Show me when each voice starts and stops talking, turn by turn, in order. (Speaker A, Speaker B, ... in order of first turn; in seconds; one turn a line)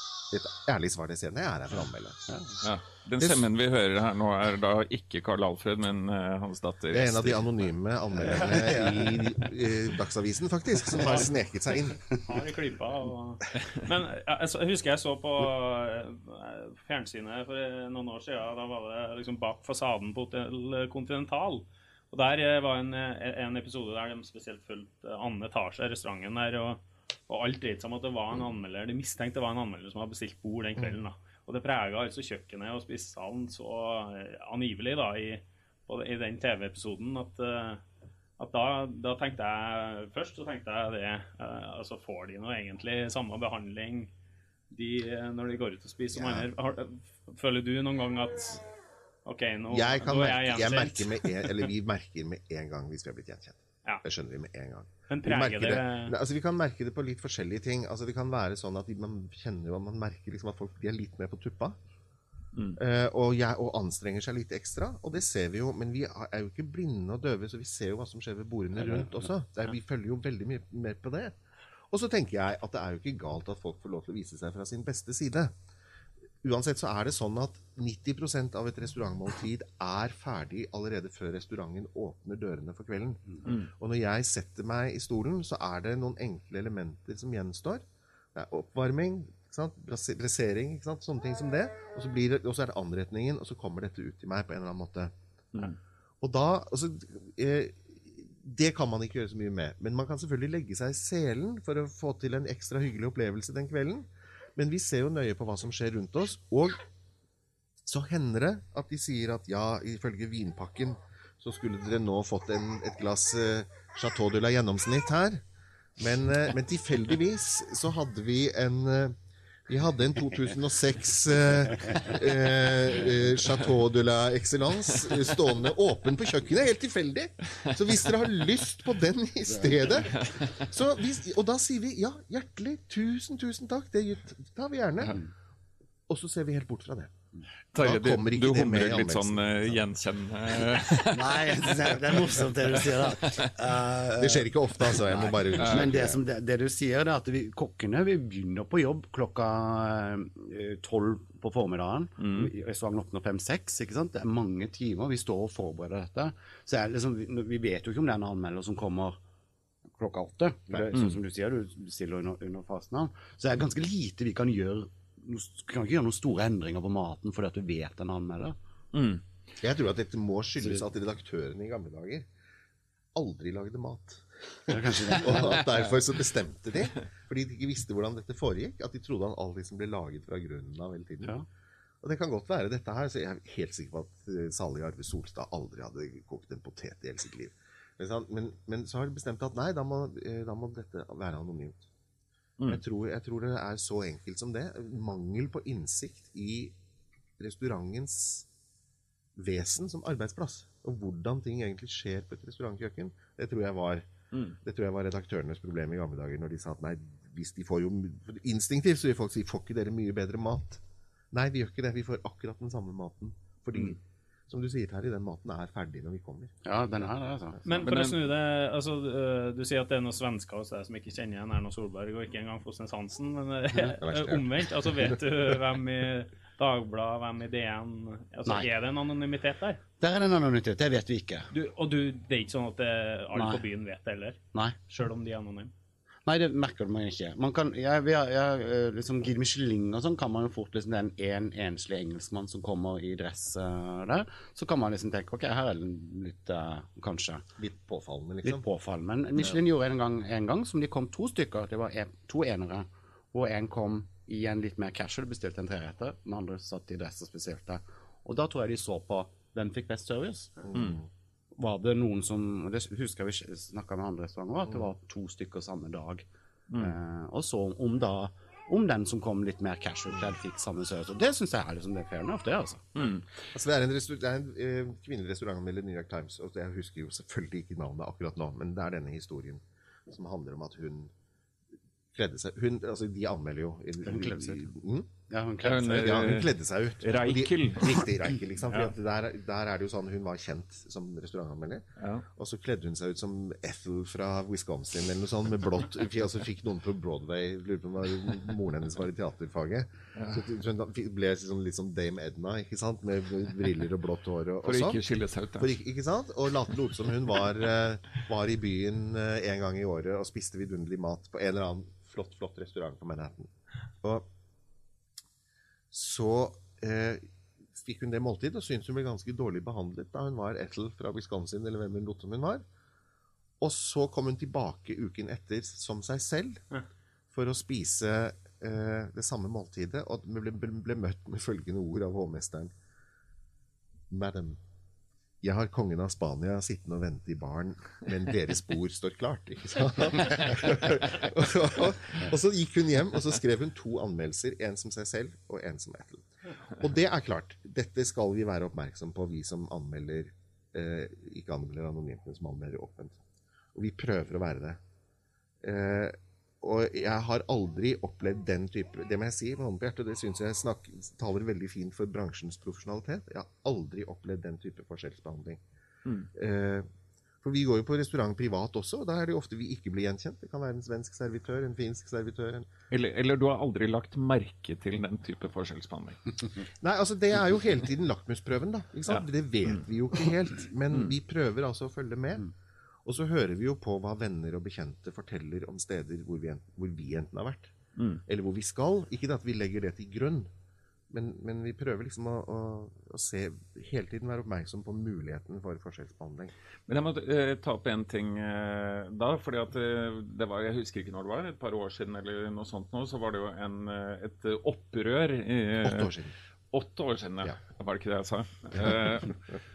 Speaker A: 0.3-2.2
Speaker B: 2.3-2.6
Speaker C: 2.6-7.5
Speaker A: 3.2-3.5
Speaker A: 6.9-12.1
Speaker D: 10.9-11.3
Speaker D: 12.2-37.8
Speaker D: 38.4-44.1
Speaker D: 44.7-48.6
Speaker A: 46.1-46.5
Speaker D: 49.2-51.7
Speaker A: 49.7-61.8
Speaker D: 55.1-56.1
Speaker A: 62.8-71.3
Speaker A: 71.9-75.5
Speaker A: 76.4-95.1
Speaker C: 83.5-83.7
Speaker A: 96.2-106.8
Speaker A: 107.8-115.4
Speaker A: 116.0-119.2
Speaker A: 119.7-135.2
Speaker C: 130.1-130.6
Speaker A: 136.1-137.1
Speaker C: 137.7-143.5
Speaker A: 137.8-139.8
Speaker B: 141.1-159.2
Speaker A: 144.2-146.2
Speaker C: 145.6-145.9
Speaker C: 152.2-152.5
Speaker B: 159.9-168.6
Speaker C: 160.9-161.2
Speaker C: 168.9-169.2
Speaker A: 169.6-172.3
Speaker A: 173.2-181.3
Speaker B: 174.7-175.6
Speaker A: 182.0-191.9
Speaker A: 192.7-196.8
Speaker A: 197.4-198.5
Speaker A: 199.4-204.1
Speaker A: 204.6-216.6
Speaker B: 216.7-217.6
Speaker D: 217.7-229.8
Speaker C: 217.7-218.2
Speaker A: 224.0-224.5
Speaker B: 230.0-231.5
Speaker D: 231.5-235.7
Speaker B: 233.3-233.7
Speaker B: 236.3-247.4
Speaker A: 247.6-248.7
Speaker B: 248.4-260.7
Speaker A: 260.6-261.1
Speaker B: 261.6-266.3
Speaker C: 266.7-266.9
Speaker B: 266.8-272.9
Speaker C: 273.0-273.3
Speaker A: 273.5-281.1
Speaker A: 282.1-285.1
Speaker B: 284.0-284.7
Speaker B: 285.3-286.0
Speaker C: 285.6-288.1
Speaker A: 285.7-305.0
Speaker C: 292.0-292.2
Speaker C: 300.2-300.4
Speaker C: 304.6-305.8
Speaker A: 305.6-313.5
Speaker A: 315.9-322.6
Speaker A: 323.6-326.6
Speaker A: 327.3-332.7
Speaker A: 334.1-334.6
Speaker A: 335.4-353.2
Speaker A: 353.7-354.8
Speaker A: 355.6-365.6
Speaker A: 366.3-366.9
Speaker A: 367.4-372.7
Speaker C: 372.9-376.4
Speaker A: 376.8-382.5
Speaker C: 379.1-379.8
Speaker A: 383.1-387.7
Speaker C: 388.0-388.2
Speaker A: 388.3-390.5
Speaker A: 391.1-396.5
Speaker C: 396.9-406.1
Speaker A: 405.8-406.3
Speaker C: 406.7-409.4